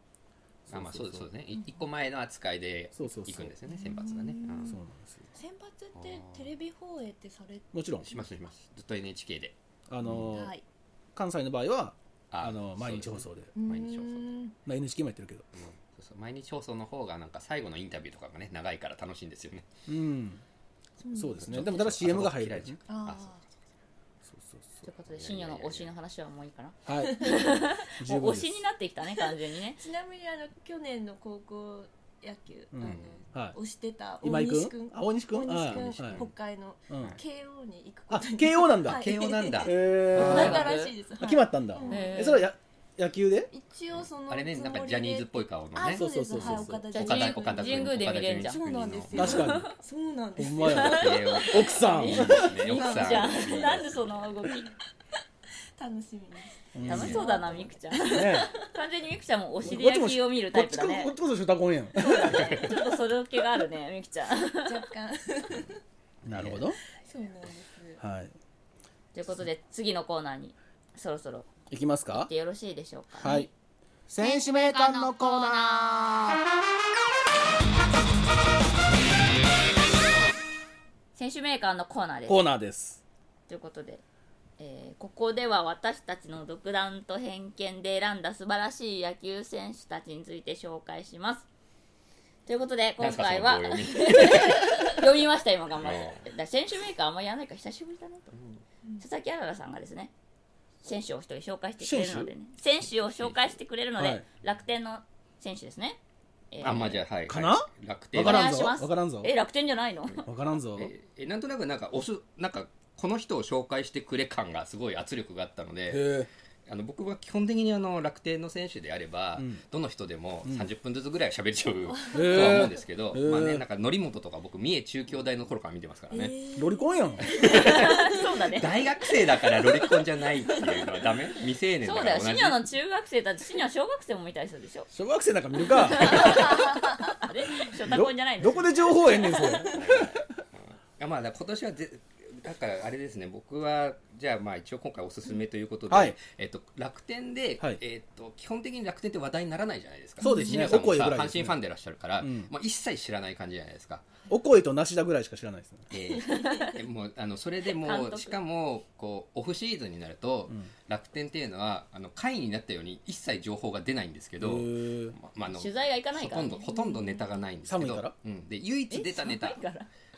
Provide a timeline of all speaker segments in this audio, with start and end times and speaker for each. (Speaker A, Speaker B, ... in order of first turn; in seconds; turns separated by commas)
Speaker A: 0.7-1.3, Speaker B: 0.7-4.8, Speaker A: 3.0-3.5, Speaker C: 3.7-4.8, Speaker A: 4.6-5.3, Speaker C: 5.3-7.7, Speaker B: 5.9-6.5, Speaker A: 7.7-8.1, Speaker B: 8.0-10.3, Speaker A: 9.9-10.5, Speaker C: 10.3-10.6, Speaker A: 11.1-13.5, Speaker B: 12.3-14.3, Speaker C: 13.6-14.6, Speaker A: 14.7-15.5, Speaker B: 15.6-19.7, Speaker A: 19.9-20.4, Speaker C: 21.0-21.5, Speaker A: 21.1-22.8, Speaker B: 21.4-23.6, Speaker C: 22.9-23.4, Speaker A: 24.2-24.7, Speaker D: 24.8-29.8, Speaker B: 25.1-25.9, Speaker A: 26.9-28.6, Speaker C: 27.0-27.4, Speaker C: 29.8-42.3, Speaker A: 32.7-33.6, Speaker B: 32.8-33.2, Speaker A: 34.2-36.2, Speaker B: 35.6-36.3, Speaker A: 36.9-37.2, Speaker A: 38.1-43.5, Speaker B: 38.8-40.9, Speaker D: 40.2-40.9, Speaker D: 41.9-42.4, Speaker C: 43.5-53.8, Speaker B: 43.9-49.5, Speaker A: 45.9-46.8, Speaker D: 46.9-48.7, Speaker A: 49.1-49.7, Speaker D: 49.2-49.7, Speaker A: 50.4-52.5, Speaker B: 50.6-54.0, Speaker D: 51.8-54.7, Speaker C: 55.8-58.5, Speaker A: 56.7-57.2, Speaker B: 56.8-57.3, Speaker D: 56.9-61.1, Speaker A: 58.0-58.5, Speaker A: 59.6-62.6, Speaker D: 62.0-64.8, Speaker C: 64.5-65.8, Speaker A: 66.2-66.8, Speaker B: 66.3-66.7, Speaker C: 67.0-68.0, Speaker A: 68.0-68.3, Speaker D: 69.1-71.5, Speaker A: 71.7-72.3, Speaker D: 72.1-73.5, Speaker A: 73.2-73.5, Speaker A: 74.1-76.4, Speaker D: 74.2-76.2, Speaker D: 81.1-82.4, Speaker A: 82.2-83.0, Speaker D: 83.5-84.0, Speaker D: 84.6-91.5, Speaker D: 92.5-98.3, Speaker B: 93.0-95.0, Speaker B: 95.8-96.2, Speaker B: 98.3-98.6, Speaker D: 99.0-100.1, Speaker D: 100.8-106.0, Speaker A: 101.8-102.3, Speaker A: 104.0-104.2, Speaker D: 106.5-107.0, Speaker B: 106.6-108.7, Speaker A: 107.3-109.3, Speaker D: 108.2-110.3, Speaker A: 110.2-110.9, Speaker B: 110.7-116.1, Speaker A: 115.9-116.3, Speaker B: 116.7-126.3, Speaker A: 119.3-119.6, Speaker C: 121.9-122.7, Speaker A: 122.1-123.6, Speaker C: 126.1-128.2, Speaker A: 126.5-127.3, Speaker B: 127.2-132.6, Speaker D: 127.4-128.7, Speaker D: 131.8-134.9, Speaker A: 134.9-136.6, Speaker D: 135.9-139.5, Speaker C: 136.2-136.6, Speaker A: 137.8-140.2, Speaker B: 139.7-154.1, Speaker A: 145.9-146.2, Speaker A: 150.2-151.6, Speaker C: 150.2-150.7, Speaker A: 152.2-152.5, Speaker A: 154.3-155.9, Speaker B: 155.9-169.6, Speaker D: 156.2-156.8, Speaker D: 157.8-158.4, Speaker A: 164.4-165.2, Speaker D: 165.5-166.7, Speaker C: 166.7-167.0, Speaker A: 167.6-168.1, Speaker D: 168.9-169.9